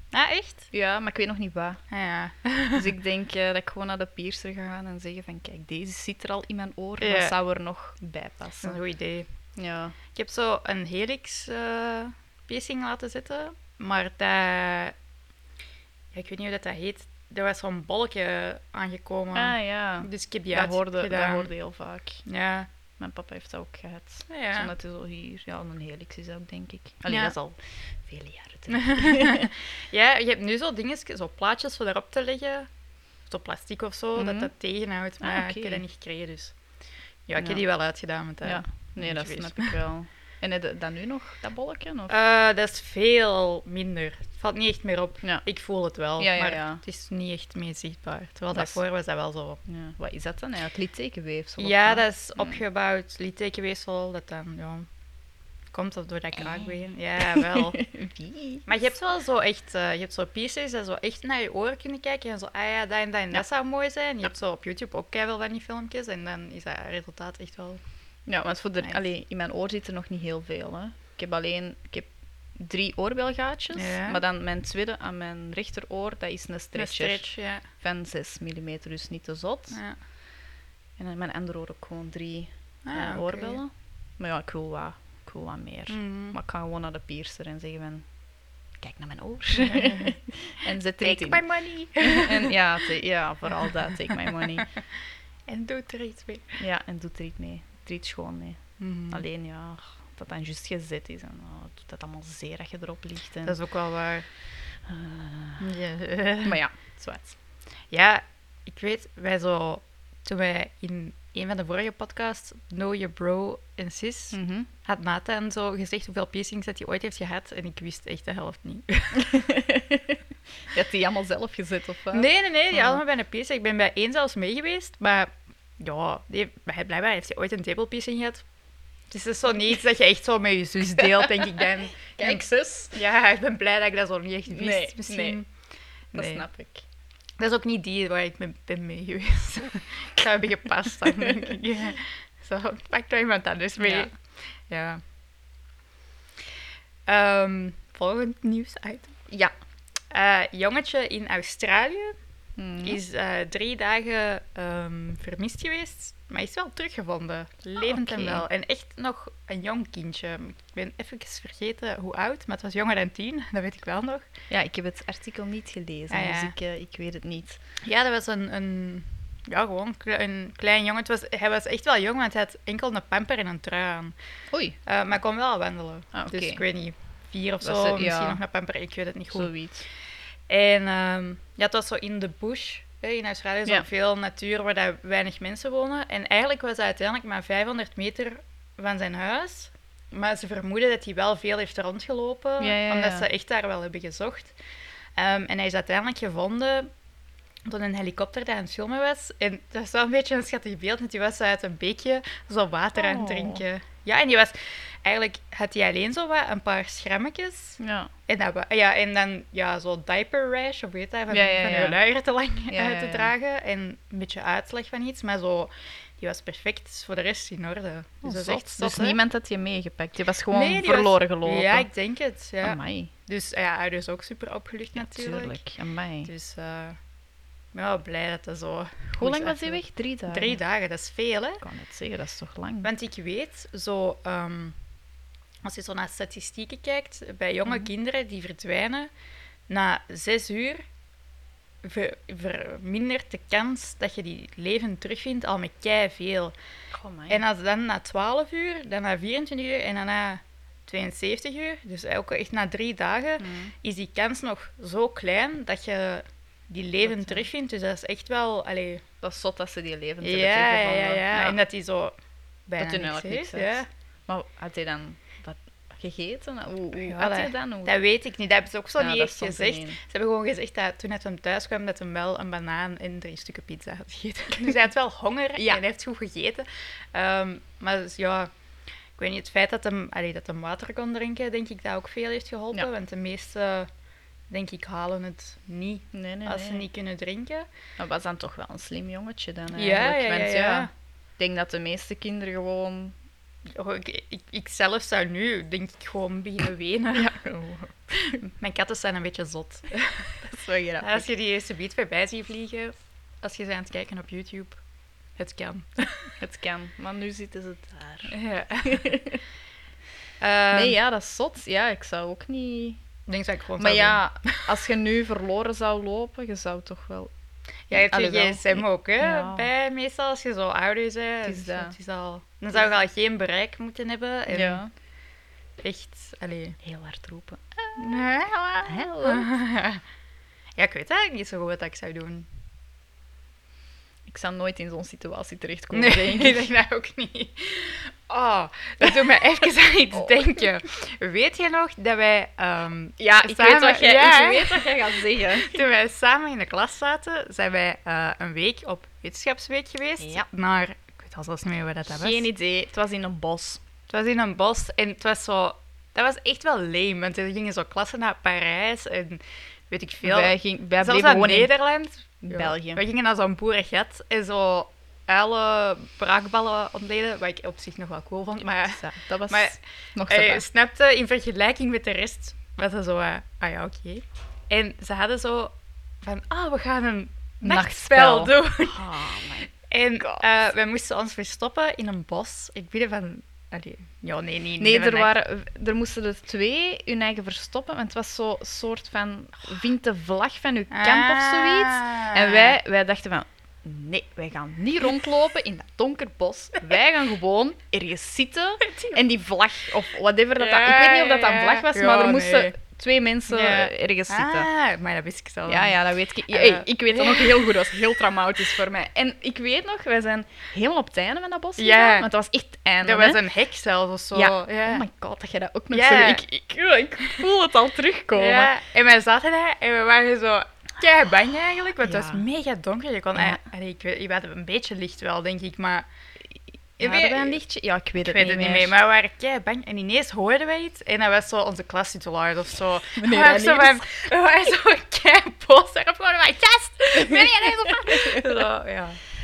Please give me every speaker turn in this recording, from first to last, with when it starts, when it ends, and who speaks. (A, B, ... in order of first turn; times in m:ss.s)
0:00.1-0:00.7 A
0:00.7-0:01.8 B
0:01.9-0:02.9 A
0:02.8-0:08.8 B
0:07.0-0:07.3 A
0:08.6-0:09.3 A
0:09.6-0:10.0 B
0:10.2-0:15.0 A
0:16.1-0:21.5 A
0:19.3-0:22.2 B
0:22.2-0:22.7 A
0:23.0-0:29.5 B
0:24.3-0:24.7 A
0:27.1-0:27.4 A
0:28.7-0:32.7 A
0:33.3-0:36.6 A
0:34.2-0:34.5 B
0:35.2-0:35.8 B
0:37.3-0:39.8 A
0:38.4-0:42.2 B
0:42.1-0:49.6 A
0:46.2-0:46.8 B
0:49.7-0:52.6 B
0:51.6-0:54.9 A
0:55.7-0:57.8 A
0:56.4-0:58.7 B
0:58.7-1:07.8 A
1:08.3-1:19.8 B
1:13.7-1:14.2 A
1:16.8-1:17.6 A
1:21.0-1:28.0 B
1:22.9-1:23.6 A
1:25.9-1:26.4 A
1:28.8-1:31.4 B
1:29.6-1:30.2 A
1:31.0-1:32.6 A
1:32.0-1:34.8 B
1:35.5-1:36.6 A
1:36.6-1:43.6 B
1:38.8-1:39.2 A
1:43.4-1:44.2 A
1:44.9-1:45.7 B
1:45.6-1:46.6 A
1:46.4-1:47.4 B
1:47.9-1:59.3 A
1:54.3-1:54.7 B
1:59.2-2:03.0 B
2:02.1-2:08.4 A
2:09.1-2:15.5 A
2:11.0-2:13.0 B
2:14.5-2:15.4 B
2:16.1-2:16.5 A
2:16.1-2:16.8 B
2:17.4-2:24.1 A
2:21.0-2:21.3 B
2:23.8-2:24.1 B
2:24.7-2:25.0 A
2:27.1-2:29.2 A
2:30.1-2:32.2 A
2:32.6-2:33.0 B
2:32.8-2:44.3 A
2:37.8-2:38.4 B
2:44.5-2:47.6 B
2:46.1-2:46.5 A
2:47.8-2:54.2 A
2:54.5-2:54.8 B
2:54.8-2:59.5 A
2:56.1-2:56.6 B
2:57.6-2:58.4 B
2:59.3-2:59.9 B
3:00.5-3:14.6 A
3:12.6-3:13.3 B
3:15.2-3:16.9 A
3:17.7-3:39.2 A
3:23.0-3:23.6 B
3:27.8-3:28.1 B
3:31.3-3:32.0 B
3:32.7-3:33.3 B
3:38.2-3:41.9 B
3:40.5-3:45.6 A
3:42.6-3:43.1 B
3:44.9-3:46.3 B
3:46.2-3:47.0 A
3:47.7-3:51.6 A
3:49.2-3:50.6 B
3:51.6-3:52.9 B
3:52.8-3:54.8 A
3:55.6-3:59.1 A
3:59.7-4:00.8 A
4:01.8-4:06.6 A
4:06.9-4:07.4 B
4:07.3-4:19.0 A
4:13.4-4:13.7 B
4:17.0-4:17.5 B
4:19.2-4:21.6 B
4:20.2-4:22.2 A
4:22.7-4:23.9 A
4:22.8-4:28.0 B
4:27.0-4:38.5 A
4:29.0-4:30.0 B
4:39.2-4:43.9 A
4:44.5-4:47.7 A
4:46.1-4:46.9 B
4:48.0-4:53.1 B
4:49.7-4:50.9 A
4:53.7-4:57.4 A
4:57.1-4:58.4 B
4:58.2-5:00.5 A
5:00.4-5:01.3 B
5:01.0-5:04.8 A
5:05.4-5:06.3 A
5:06.4-5:09.4 B
5:08.3-5:09.1 A
5:10.4-5:11.0 A
5:10.7-5:13.0 B
5:13.3-5:14.7 A
5:13.8-5:17.3 B
5:17.9-5:24.8 A
5:17.9-5:19.7 B
5:21.4-5:22.0 B
5:24.5-5:24.9 B
5:25.8-5:26.8 A
5:26.8-5:28.2 B
5:28.0-5:30.0 A
5:28.8-5:29.5 B
5:30.8-5:32.5 A
5:34.3-5:36.7 B
5:35.9-5:52.4 A
5:40.1-5:40.5 B
5:43.2-5:45.8 B
5:50.2-5:50.5 B
5:52.1-5:53.8 B
5:54.1-6:19.1 A
6:00.2-6:01.7 B
6:02.4-6:03.0 B
6:08.8-6:10.6 B
6:17.6-6:20.5 B
6:19.9-6:25.3 A
6:24.8-6:44.7 B
6:30.9-6:32.8 A
6:38.9-6:39.2 A
6:40.6-6:42.8 A
6:43.5-6:46.0 A
6:45.7-6:53.4 B
6:46.5-6:48.0 A
6:51.8-6:52.3 A
6:53.0-6:55.1 A
6:54.3-6:58.8 B
6:55.9-6:56.4 A
6:58.3-7:06.1 A
7:02.0-7:02.4 B
7:03.4-7:03.6 B
7:07.0-7:07.6 A
7:07.0-7:09.0 B
7:08.2-7:19.2 A
7:13.2-7:14.2 B
7:17.1-7:18.6 B